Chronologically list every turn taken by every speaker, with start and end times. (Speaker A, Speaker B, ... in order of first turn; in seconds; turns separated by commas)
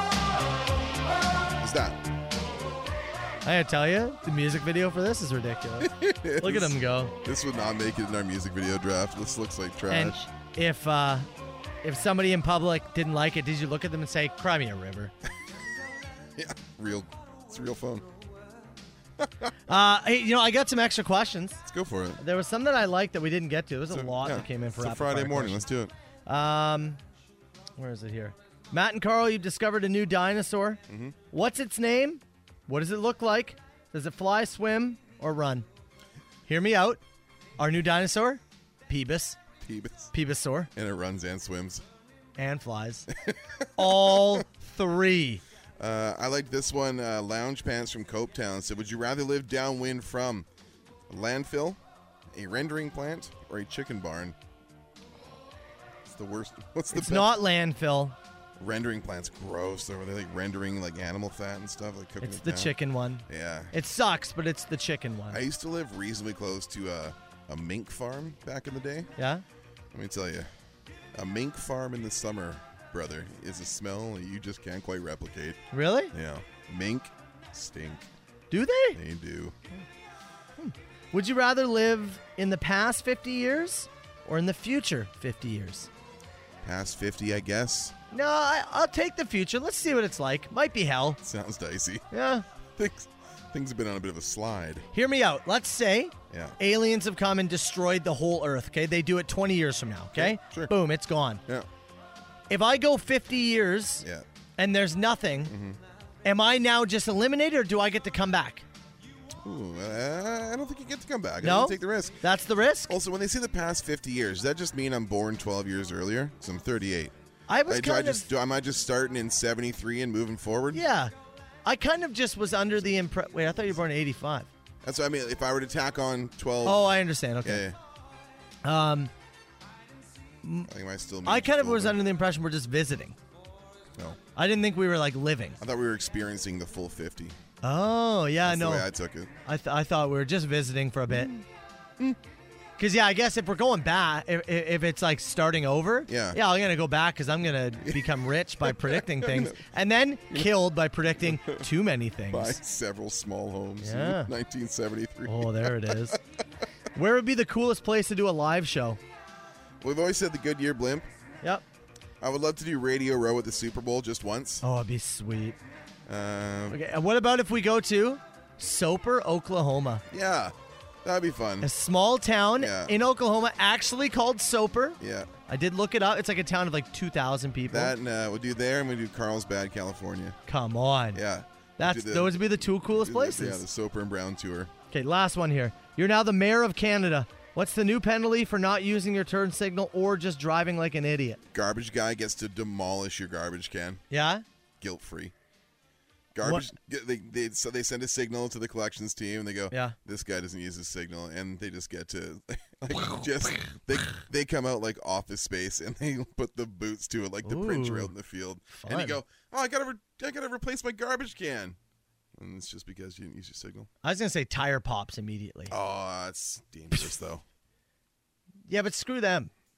Speaker A: 1.6-2.0, Speaker B: 3.4-7.1, Speaker A: 5.8-10.2, Speaker B: 9.9-11.3, Speaker B: 11.8-15.1, Speaker A: 16.3-18.1, Speaker A: 19.2-19.5, Speaker B: 19.7-21.6, Speaker A: 21.6-22.2, Speaker B: 22.2-25.7, Speaker A: 23.9-25.9, Speaker B: 26.2-27.0, Speaker B: 27.8-35.6, Speaker A: 30.9-31.2, Speaker B: 36.5-37.0, Speaker B: 37.6-39.4, Speaker A: 39.6-40.1, Speaker B: 40.1-40.7, Speaker A: 40.7-41.8, Speaker B: 42.4-43.1, Speaker A: 43.2-44.4, Speaker B: 43.8-45.4, Speaker A: 45.8-50.5, Speaker A: 51.1-51.8, Speaker A: 52.3-54.4, Speaker A: 56.0-57.4, Speaker B: 56.9-58.2, Speaker A: 58.6-62.8, Speaker B: 62.2-65.4, Speaker A: 63.3-63.7, Speaker A: 65.3-69.1, Speaker B: 69.2-69.4, Speaker A: 69.9-70.5, Speaker A: 71.1-78.1, Speaker B: 75.7-76.1, Speaker B: 78.5-79.0, Speaker A: 78.9-79.5, Speaker B: 80.6-85.9, Speaker A: 86.6-88.0, Speaker B: 88.1-91.2, Speaker A: 91.2-92.1, Speaker B: 92.1-92.4, Speaker A: 92.8-94.9, Speaker B: 94.9-101.4, Speaker A: 96.3-96.6, Speaker A: 100.1-100.7, Speaker B: 102.5-104.0, Speaker B: 104.6-105.5, Speaker A: 105.5-105.8, Speaker B: 106.2-108.6, Speaker A: 109.4-112.2, Speaker B: 111.4-112.9, Speaker A: 112.9-117.1, Speaker B: 117.5-118.3, Speaker A: 117.7-120.8, Speaker B: 120.7-121.1, Speaker B: 121.6-124.5, Speaker A: 124.8-126.9, Speaker B: 126.6-127.7, Speaker A: 127.4-127.8, Speaker B: 128.6-129.1, Speaker B: 130.4-130.7, Speaker A: 130.7-132.0, Speaker B: 131.2-133.2, Speaker B: 134.3-135.6, Speaker A: 135.6-137.4, Speaker B: 137.6-138.9, Speaker A: 138.4-139.3, Speaker B: 139.4-141.3, Speaker A: 141.1-141.4, Speaker B: 142.8-152.6, Speaker A: 146.1-146.4, Speaker A: 147.8-149.7, Speaker A: 151.2-151.7, Speaker A: 152.3-156.2, Speaker B: 153.8-154.3, Speaker B: 155.3-156.2, Speaker B: 156.9-159.0, Speaker A: 159.8-161.1, Speaker A: 162.2-164.6, Speaker B: 164.6-165.6, Speaker A: 166.1-166.8, Speaker B: 166.7-170.0, Speaker A: 170.1-171.7, Speaker B: 171.6-177.9, Speaker A: 172.6-172.9, Speaker A: 175.0-175.3, Speaker A: 177.7-180.4, Speaker B: 180.5-181.2, Speaker A: 181.1-184.7, Speaker B: 181.8-183.6, Speaker B: 184.9-191.4, Speaker A: 191.5-194.0, Speaker B: 194.1-194.4, Speaker A: 194.8-195.3, Speaker A: 196.3-211.8, Speaker B: 199.7-199.9, Speaker B: 207.4-208.1, Speaker B: 208.7-209.2, Speaker A: 212.3-213.9, Speaker B: 214.0-215.7, Speaker A: 215.7-217.4, Speaker B: 218.7-219.5